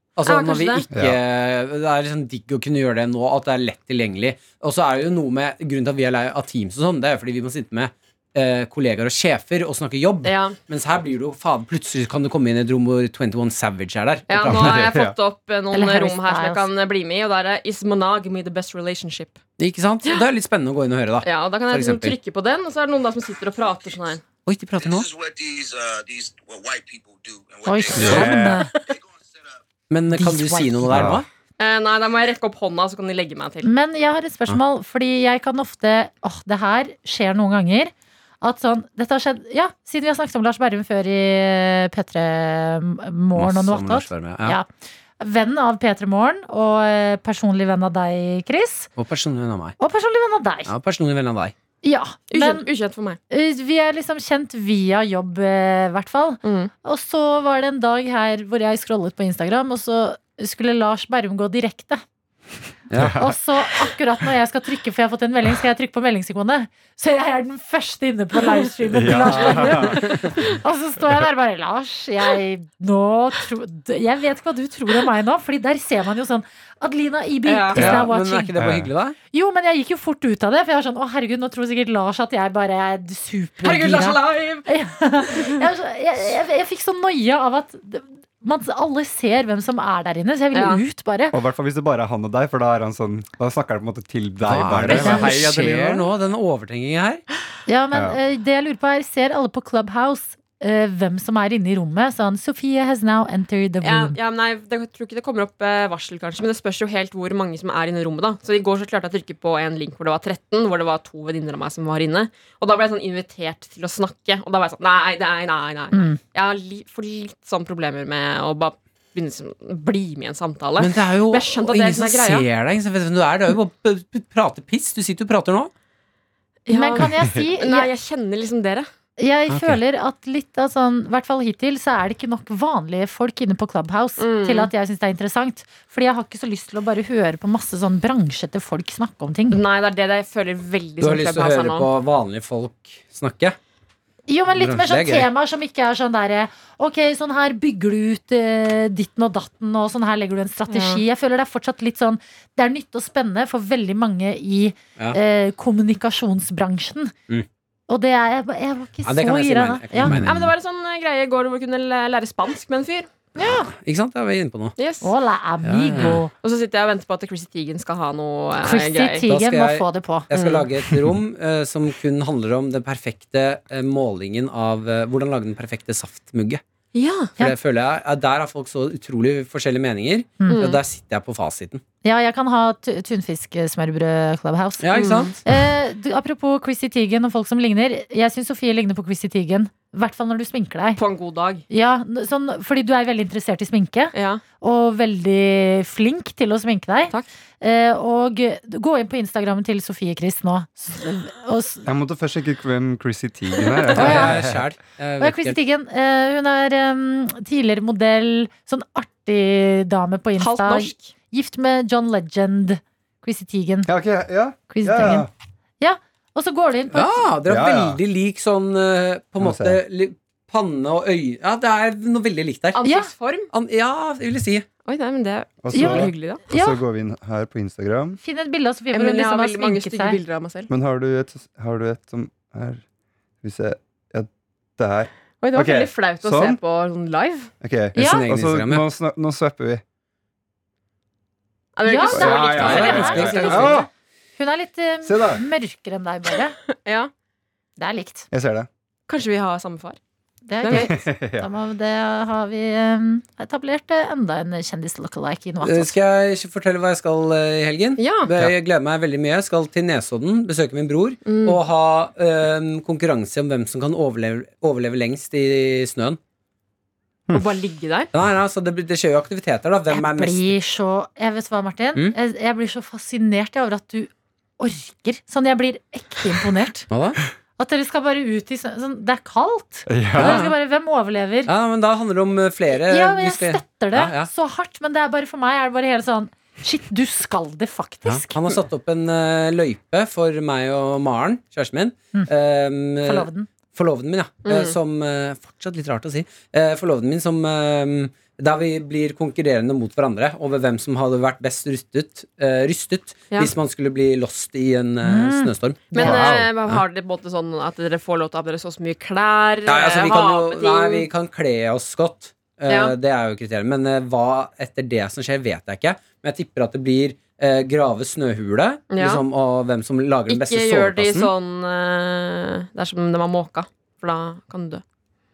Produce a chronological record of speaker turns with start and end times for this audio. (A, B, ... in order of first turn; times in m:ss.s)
0:00.2-0:14.8 A
0:00.3-0:00.8 B
0:00.9-0:01.2 C
0:10.2-0:10.6 B
0:14.3-0:19.4 B
0:14.4-0:15.1 C
0:15.7-0:16.6 D
0:19.6-0:22.1 A
0:21.2-0:24.2 B
0:24.4-0:25.1 A
0:25.0-0:27.9 E
0:27.6-0:28.7 D
0:27.9-0:28.6 C
0:28.1-0:28.6 B
0:29.9-0:31.3 A
0:30.1-0:31.1 D
0:30.9-0:31.2 C
0:31.6-0:33.7 B
0:33.6-0:44.7 D
0:43.3-0:44.6 A
0:45.2-0:48.9 D
0:49.0-0:49.8 A
0:49.8-0:50.7 D
0:50.6-0:51.5 A
0:51.8-0:52.7 D
0:52.3-0:53.2 B
0:53.3-1:02.0 D
0:56.4-0:56.7 B
1:02.9-1:03.2 A
1:02.9-1:03.3 C
1:03.2-1:18.5 D
1:08.9-1:10.2 C
1:09.8-1:10.3 A
1:17.4-1:17.9 B
1:17.7-1:19.2 A
1:17.8-1:18.9 C
1:19.3-1:31.3 D
1:23.6-1:24.7 B
1:25.2-1:25.6 B
1:30.5-1:30.8 B
1:31.3-1:36.1 C
1:34.4-1:37.2 A
1:34.9-1:35.2 B
1:37.7-1:44.2 D
1:43.8-2:02.4 B
1:55.9-1:56.2 D
2:00.8-2:05.7 A
2:06.7-2:07.9 D
2:06.7-2:08.9 B
2:09.2-2:19.6 D
2:09.5-2:09.8 A
2:14.2-2:14.7 B
2:19.5-2:21.9 B
2:21.0-2:23.6 A
2:24.3-2:37.1 D
2:24.5-2:25.3 A
2:30.7-2:31.0 B
2:37.9-2:40.2 D
2:39.0-2:40.5 A
2:40.0-2:43.1 B
2:43.4-2:43.7 D
2:43.4-2:44.7 A
2:44.8-2:45.1 B
2:45.0-2:46.3 D
2:45.6-2:46.2 A
2:46.0-2:49.2 B
2:48.6-2:50.3 D
2:49.2-2:56.6 A
2:50.3-2:50.7 B
2:56.9-2:57.3 B
2:57.4-3:01.8 A
3:00.4-3:00.7 D
3:00.5-3:00.8 B
3:02.0-3:11.0 D
3:04.8-3:05.4 A
3:04.9-3:05.3 B
3:11.0-3:11.6 B
3:11.7-3:21.8 D
3:14.1-3:14.4 B
3:21.8-3:24.6 C
3:23.9-3:24.4 D
3:24.0-3:25.6 A
3:25.2-3:33.9 D
3:30.4-3:31.1 B
3:33.8-3:35.3 C
3:34.7-3:35.3 D
3:35.8-3:37.3 D
3:36.9-3:42.8 A
3:37.4-3:38.0 C
3:39.4-3:39.8 C
3:42.7-3:43.5 B
3:42.8-3:43.1 D
3:43.5-3:44.6 A
3:44.8-3:46.4 B
3:45.6-3:48.2 C
3:45.7-3:46.8 D
3:48.2-3:50.2 D
3:48.9-3:50.7 B
3:50.7-3:52.8 C
3:53.4-3:56.6 C
3:55.4-3:57.5 B
3:57.6-3:59.8 C
3:57.9-3:58.2 D
3:58.0-3:58.8 A
4:01.8-4:03.8 B
4:01.8-4:06.6 D
4:02.1-4:03.9 C
4:02.4-4:03.8 A
4:05.0-4:05.4 C
4:06.7-4:07.1 B
4:07.8-4:08.3 D
4:08.3-4:08.7 C
4:09.1-4:10.0 B
4:10.5-4:15.9 D
4:10.6-4:10.9 B
4:10.7-4:11.5 C
4:15.6-4:26.2 A
4:18.0-4:18.3 B
4:21.2-4:21.6 B
4:27.3-4:28.1 B
4:28.1-4:30.5 A
4:29.9-4:36.9 D
4:36.9-4:37.2 A
4:37.6-4:41.5 D
4:39.9-4:40.5 C
4:40.1-4:40.5 A
4:41.4-4:44.3 A
4:42.7-4:48.4 D
4:48.0-5:06.8 A
4:53.0-4:53.5 D
4:54.4-4:54.7 B
5:05.0-5:06.2 D
5:05.9-5:11.1 B
5:06.0-5:06.5 C
5:09.7-5:21.3 A
5:12.7-5:12.9 B
5:18.9-5:19.2 B
5:20.3-5:24.8 B